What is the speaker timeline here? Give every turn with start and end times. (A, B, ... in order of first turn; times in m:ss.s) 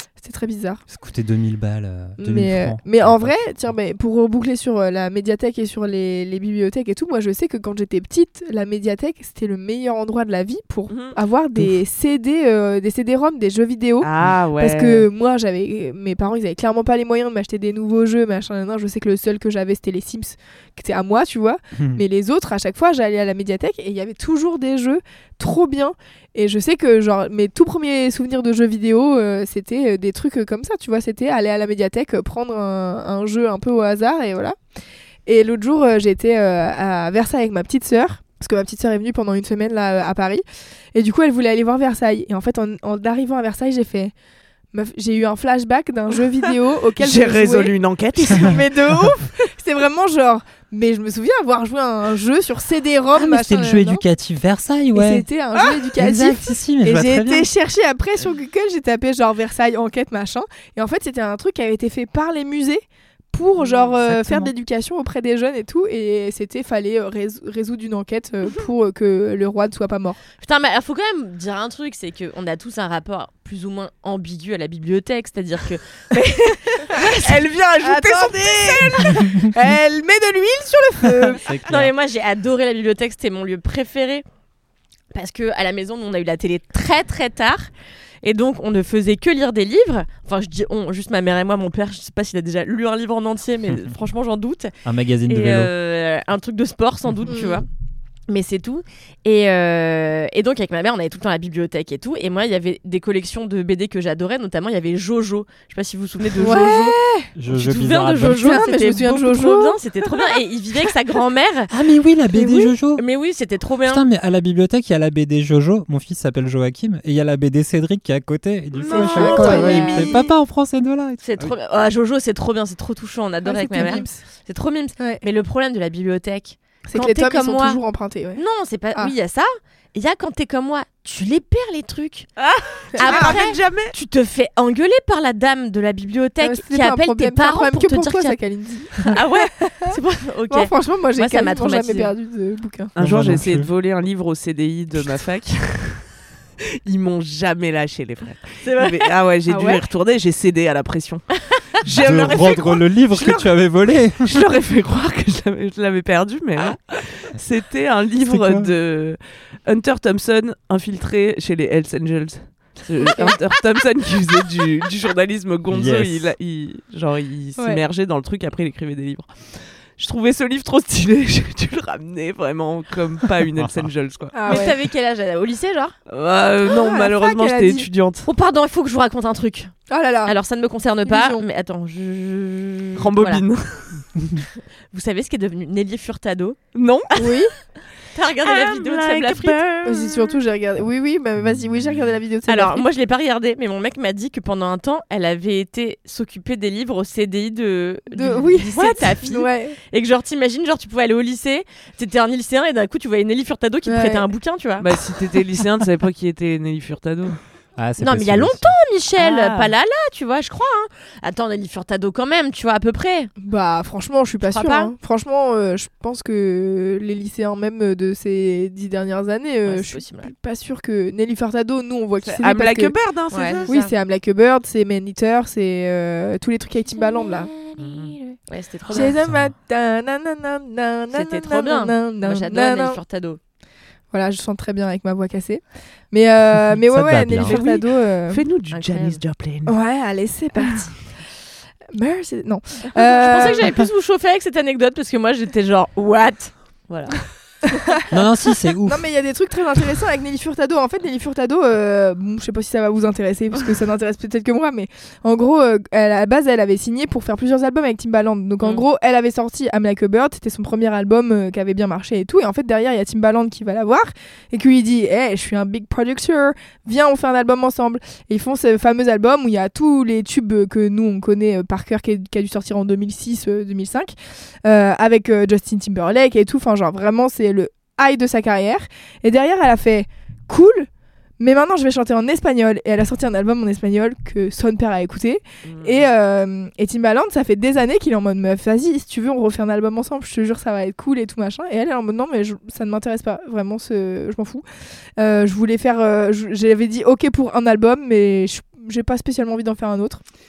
0:00.2-0:00.8 A
0:00.9-0:03.4 B
0:02.2-0:34.6 A
0:10.9-0:11.2 C
0:14.0-0:15.1 C
0:21.8-0:22.0 B
0:35.2-0:40.4 A
0:40.9-0:44.1 A
0:44.7-0:54.0 A
0:47.0-0:48.7 C
0:53.1-0:55.2 B
0:54.9-1:10.2 A
0:56.0-0:57.5 B
1:04.0-1:04.5 B
1:10.4-1:17.0 D
1:16.9-1:19.2 C
1:17.8-1:21.4 A
1:21.3-1:21.9 B
1:21.6-1:24.2 D
1:25.1-1:27.7 D
1:28.2-1:34.7 D
1:34.8-1:35.7 B
1:35.3-1:37.7 D
1:37.3-1:37.6 A
1:38.3-1:46.9 D
1:46.4-1:47.3 A
1:47.3-1:48.6 B
1:47.5-1:51.7 D
1:48.3-1:49.8 A
1:51.7-1:53.0 B
1:52.3-1:52.7 A
1:52.9-1:54.0 D
1:53.8-2:01.5 B
1:58.7-2:00.1 C
1:58.9-2:00.2 A
1:59.1-2:00.1 D
2:01.2-2:07.8 D
2:03.4-2:04.2 A
2:05.0-2:05.2 A
2:06.9-2:08.4 A
2:08.4-2:12.3 D
2:12.4-2:13.9 C
2:12.9-2:13.4 A
2:13.0-2:18.4 D
2:16.4-2:19.9 A
2:19.0-2:22.1 D
2:20.5-2:22.9 A
2:22.9-2:26.0 C
2:23.0-2:23.7 B
2:26.8-2:31.2 C
2:28.6-2:29.0 D
2:29.5-2:29.8 A
2:31.8-2:33.6 C
2:31.8-2:34.4 B
2:34.2-2:54.7 C
2:38.2-2:38.7 B
2:43.0-2:43.4 A
2:45.7-2:46.3 B
2:47.6-2:47.8 A
2:54.3-2:54.8 A
2:54.4-2:55.9 D
2:56.1-2:58.3 C
2:56.6-2:57.9 A
2:58.2-2:59.7 D
2:59.9-3:00.3 A
3:00.2-3:03.4 D
3:01.0-3:01.4 A
3:03.0-3:04.0 C
3:04.9-3:06.6 D
3:06.7-3:07.1 C
3:07.2-3:07.5 A
3:08.1-3:10.3 D
3:08.4-3:09.6 C
3:09.8-3:12.9 A
3:12.5-3:24.9 D
3:18.1-3:19.8 A
3:23.8-3:24.3 A
3:24.8-3:27.4 C
3:27.8-3:28.7 B
3:28.0-3:33.3 D
3:29.2-3:29.7 C
3:33.4-3:42.9 A
3:34.4-3:34.9 D
3:39.6-3:40.3 D
3:42.2-3:43.7 C
3:43.3-3:43.9 D
3:43.7-3:47.5 A
3:47.0-3:49.1 D
3:47.8-3:48.1 C
3:48.9-3:53.0 A
3:49.1-3:49.5 B
3:51.1-3:53.4 D
3:54.1-3:55.6 A
3:56.1-3:58.4 A
3:56.8-3:57.6 B
3:57.4-3:59.7 C
3:58.7-3:59.2 D
3:59.7-4:01.0 A
4:01.9-4:03.8 A
4:02.9-4:07.2 D
4:08.1-4:09.0 B
4:08.8-4:34.1 A
4:34.6-4:40.9 A
4:41.4-4:54.6 A
4:45.6-4:46.1 C
4:55.2-5:00.2 A